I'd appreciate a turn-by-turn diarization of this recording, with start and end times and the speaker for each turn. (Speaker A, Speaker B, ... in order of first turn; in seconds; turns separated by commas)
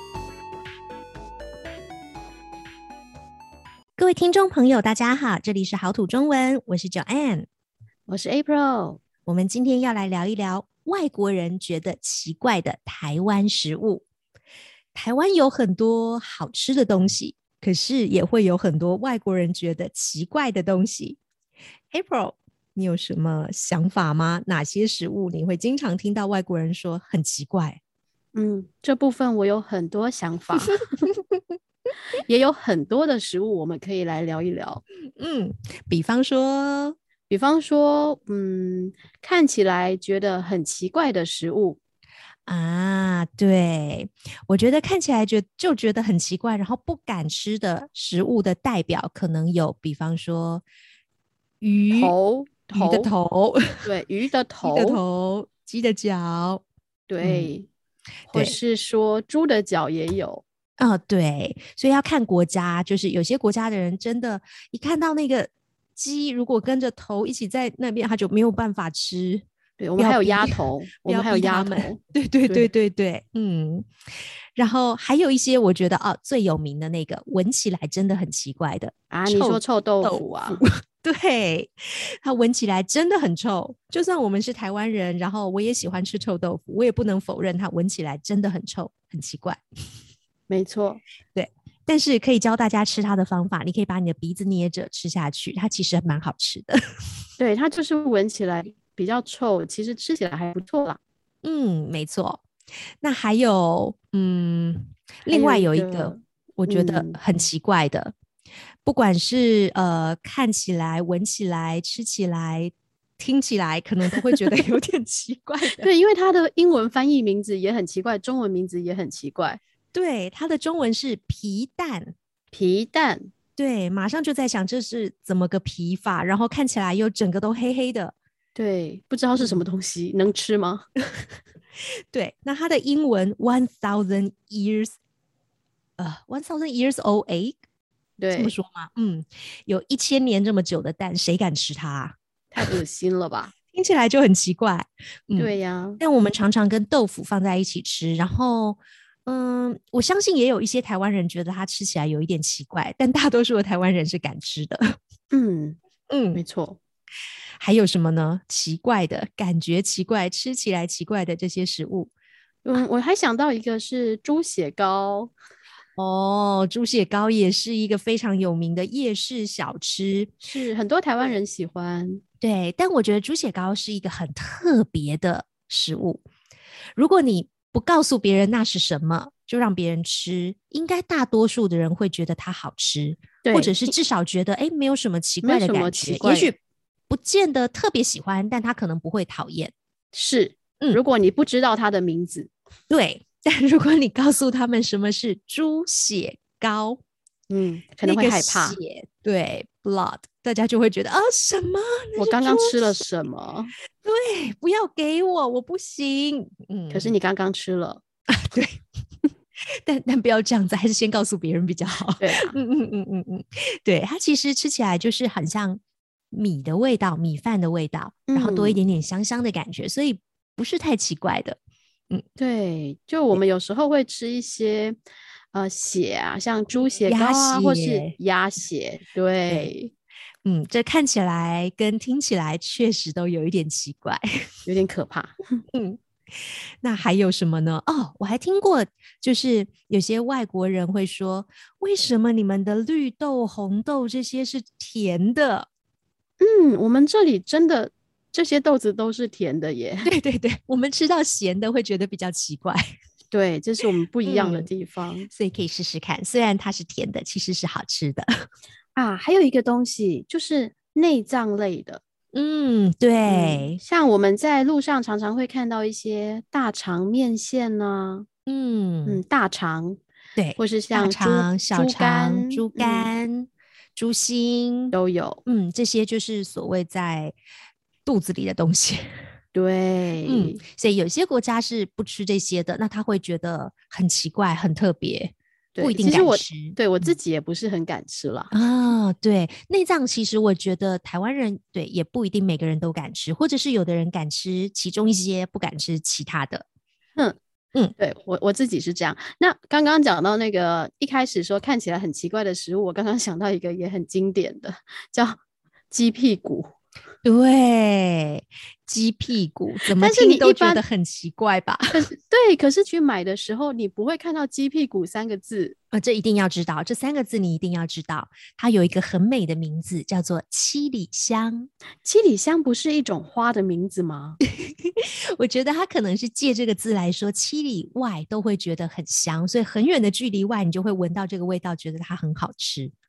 Speaker A: 4.0-7.5, Speaker B: 8.1-9.0, Speaker A: 9.3-14.1, Speaker A: 14.9-21.2, Speaker A: 21.9-27.8, Speaker B: 28.4-31.1, Speaker A: 31.0-31.4, Speaker B: 32.3-34.8, Speaker A: 35.2-37.0, Speaker B: 37.3-41.8, Speaker A: 42.5-50.6, Speaker A: 51.6-52.2, Speaker B: 51.9-53.1, Speaker A: 52.8-53.9, Speaker B: 53.8-55.0, Speaker A: 54.6-56.6, Speaker B: 57.1-57.7, Speaker A: 57.2-57.5, Speaker A: 58.3-58.6, Speaker B: 58.3-60.4, Speaker A: 60.8-69.5, Speaker B: 69.8-72.7, Speaker A: 70.0-73.9, Speaker A: 74.5-89.6, Speaker B: 79.1-80.6, Speaker B: 90.5-91.0, Speaker A: 91.3-96.8, Speaker B: 97.4-101.0, Speaker A: 101.4-102.4, Speaker A: 103.0-108.2, Speaker B: 105.3-107.2, Speaker A: 108.8-115.9, Speaker B: 115.8-119.6, Speaker A: 119.9-122.1, Speaker B: 122.5-123.3, Speaker A: 123.6-128.1, Speaker B: 128.6-130.9, Speaker A: 129.4-129.6, Speaker A: 132.1-135.0, Speaker A: 136.0-137.6, Speaker B: 138.2-138.5, Speaker A: 138.3-142.8, Speaker B: 142.5-143.5, Speaker A: 143.7-154.9, Speaker B: 145.4-146.0, Speaker B: 155.3-155.8, Speaker A: 156.1-156.4, Speaker B: 156.3-156.8, Speaker A: 157.6-162.1, Speaker B: 162.7-165.3, Speaker A: 166.0-170.3, Speaker B: 170.4-172.2, Speaker A: 172.4-176.2, Speaker A: 176.9-186.6, Speaker B: 183.4-183.9, Speaker B: 185.4-186.5, Speaker A: 187.1-189.7, Speaker B: 190.1-192.5, Speaker A: 192.9-197.0, Speaker B: 197.5-198.8, Speaker A: 198.0-203.0, Speaker B: 202.2-203.7, Speaker A: 204.0-207.2, Speaker B: 206.9-208.0, Speaker A: 208.3-208.8, Speaker A: 209.8-215.8, Speaker B: 212.2-212.6, Speaker A: 216.3-221.6, Speaker B: 218.3-218.8, Speaker B: 222.4-225.0, Speaker B: 225.5-229.9, Speaker A: 227.1-228.2, Speaker A: 229.5-229.7, Speaker A: 230.4-234.2, Speaker B: 234.7-235.4, Speaker A: 235.7-245.7, Speaker B: 246.4-250.1, Speaker A: 250.1-252.9, Speaker B: 253.3-255.3, Speaker A: 254.2-254.7, Speaker A: 255.3-258.3, Speaker B: 258.9-262.0, Speaker A: 262.3-263.8, Speaker B: 263.3-268.3, Speaker A: 268.5-269.2, Speaker B: 269.1-270.0, Speaker A: 270.4-274.9, Speaker B: 270.6-273.1, Speaker B: 274.9-275.4, Speaker A: 275.5-277.4, Speaker A: 278.1-279.1, Speaker B: 279.5-280.6, Speaker A: 280.3-287.1, Speaker B: 285.8-288.5, Speaker A: 288.5-296.6, Speaker B: 298.0-305.4, Speaker B: 305.9-306.7, Speaker A: 307.2-312.0, Speaker B: 310.0-310.8, Speaker B: 311.9-315.8, Speaker A: 315.9-321.7, Speaker B: 322.0-324.4, Speaker A: 324.6-332.9